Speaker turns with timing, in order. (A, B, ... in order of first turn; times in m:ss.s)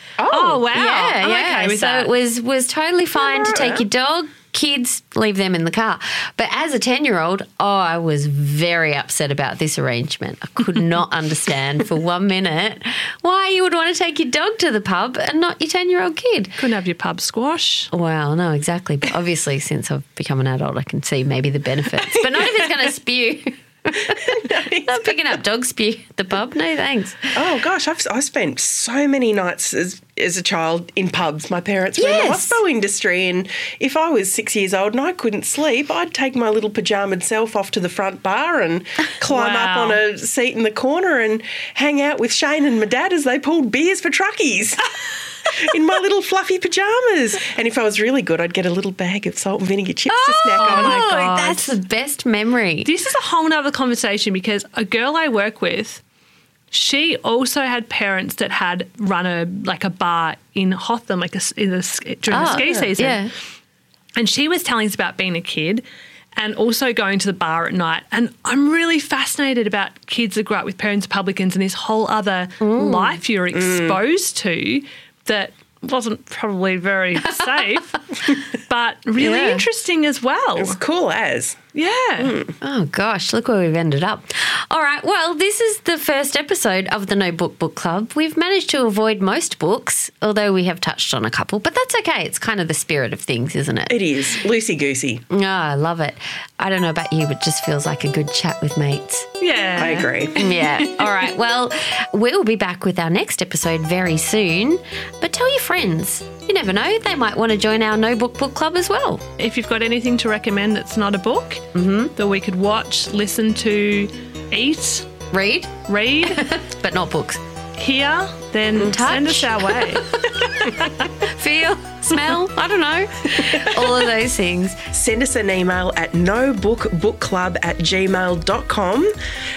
0:00.2-0:00.7 A
0:00.3-0:02.1 B
0:00.7-0:16.6 C
0:03.2-0:03.9 A
0:16.6-0:17.9 B
0:17.9-0:27.4 C
0:24.1-0:25.2 A
0:27.3-0:44.9 A
0:32.0-0:32.6 C
0:39.3-0:40.0 B
0:45.4-0:51.0 A
0:50.1-0:52.9 C
0:50.6-0:51.8 B
0:52.8-0:56.0 B
0:56.7-1:03.3 B
1:02.3-1:03.3 C
1:02.4-1:02.9 A
1:04.2-1:05.8 B
1:06.4-1:20.8 B
1:12.6-1:13.2 C
1:13.5-1:14.0 A
1:17.3-1:17.6 C
1:19.2-1:19.6 C
1:20.6-1:21.6 A
1:21.8-1:22.4 B
1:22.2-1:22.6 A
1:22.6-1:34.0 C
1:33.9-1:35.2 A
1:35.3-1:39.3 C
1:39.4-1:41.2 B
1:39.8-1:40.5 A
1:40.3-1:49.2 C
1:49.4-1:55.1 B
1:51.7-1:52.1 C
1:55.3-1:57.4 C
1:55.9-1:56.4 B
1:57.8-2:00.1 B
1:58.8-2:04.8 C
2:03.5-2:03.8 A
2:04.9-2:09.1 A